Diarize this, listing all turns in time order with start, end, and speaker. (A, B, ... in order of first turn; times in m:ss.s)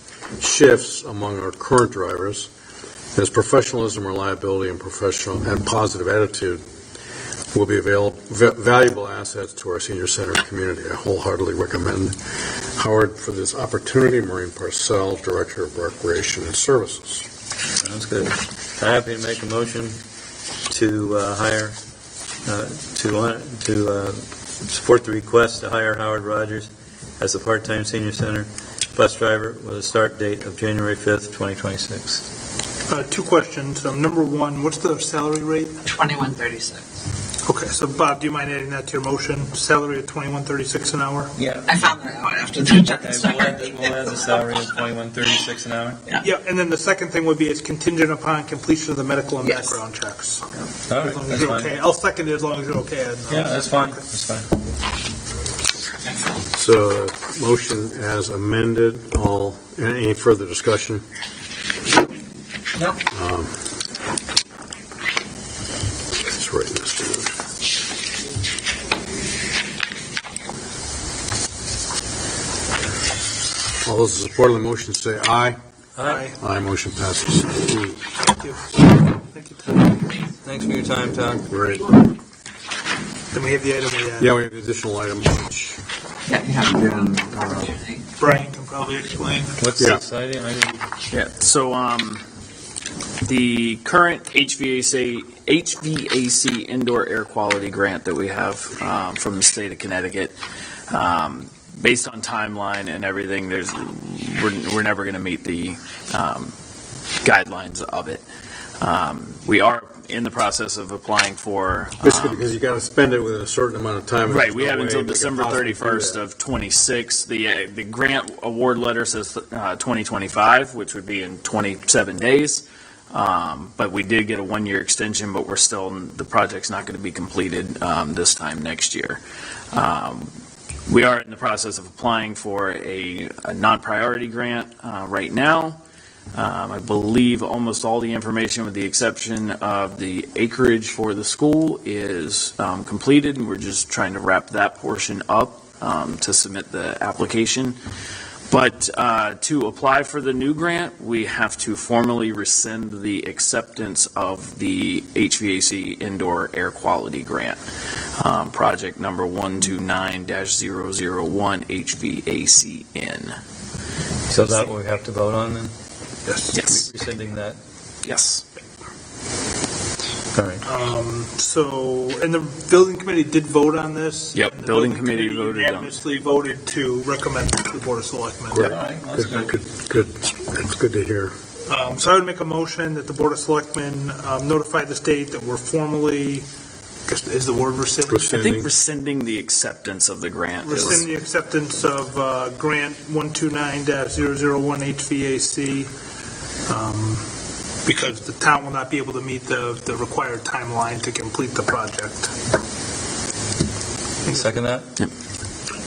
0:00.4-0:02.5 A
0:03.1-0:06.6 A
0:07.5-0:17.3 A
0:17.8-0:20.0 B
0:20.7-0:21.8 B
0:22.4-0:32.2 B
0:32.9-0:35.8 C
0:35.8-0:36.8 D
0:37.4-0:41.3 C
0:41.4-0:42.0 B
0:41.7-0:44.1 D
0:42.8-0:46.0 B
0:46.2-0:50.4 C
0:50.9-0:51.7 B
0:51.0-0:54.0 C
0:53.3-0:54.5 B
0:56.5-1:01.0 A
1:03.0-1:03.6 A
1:06.2-1:07.4 A
1:13.8-1:15.6 A
1:16.0-1:16.3 B
1:16.0-1:16.4 C
1:16.4-1:18.0 A
1:18.4-1:20.0 C
1:20.4-1:21.5 B
1:21.5-1:22.0 A
1:23.3-1:24.3 C
1:24.2-1:25.8 A
1:26.3-1:27.1 D
1:26.6-1:27.7 A
1:27.7-1:28.0 D
1:28.2-1:29.6 C
1:29.6-1:30.8 B
1:31.1-1:32.2 E
1:33.2-1:40.3 E
1:40.9-1:46.5 E
1:47.2-1:48.2 E
1:48.8-1:52.5 E
1:52.0-1:56.2 A
1:54.2-2:09.2 E
2:09.7-2:10.3 E
2:10.9-2:15.8 E
2:16.3-2:27.8 E
2:28.5-2:37.6 E
2:38.2-2:43.4 E
2:44.3-2:45.7 B
2:46.2-2:46.6 C
2:46.5-2:46.8 E
2:46.6-2:47.6 B
2:48.0-2:48.4 E
2:50.3-2:50.6 B
2:50.6-2:58.8 C
2:54.3-2:56.0 E
2:58.5-3:01.3 A
2:58.6-2:59.5 B
3:01.7-3:06.4 C
3:07.1-3:08.4 C
3:08.1-3:08.7 A
3:08.3-3:11.0 E
3:10.6-3:15.9 C
3:16.7-3:17.2 C
3:17.8-3:22.3 C
3:24.2-3:24.9 B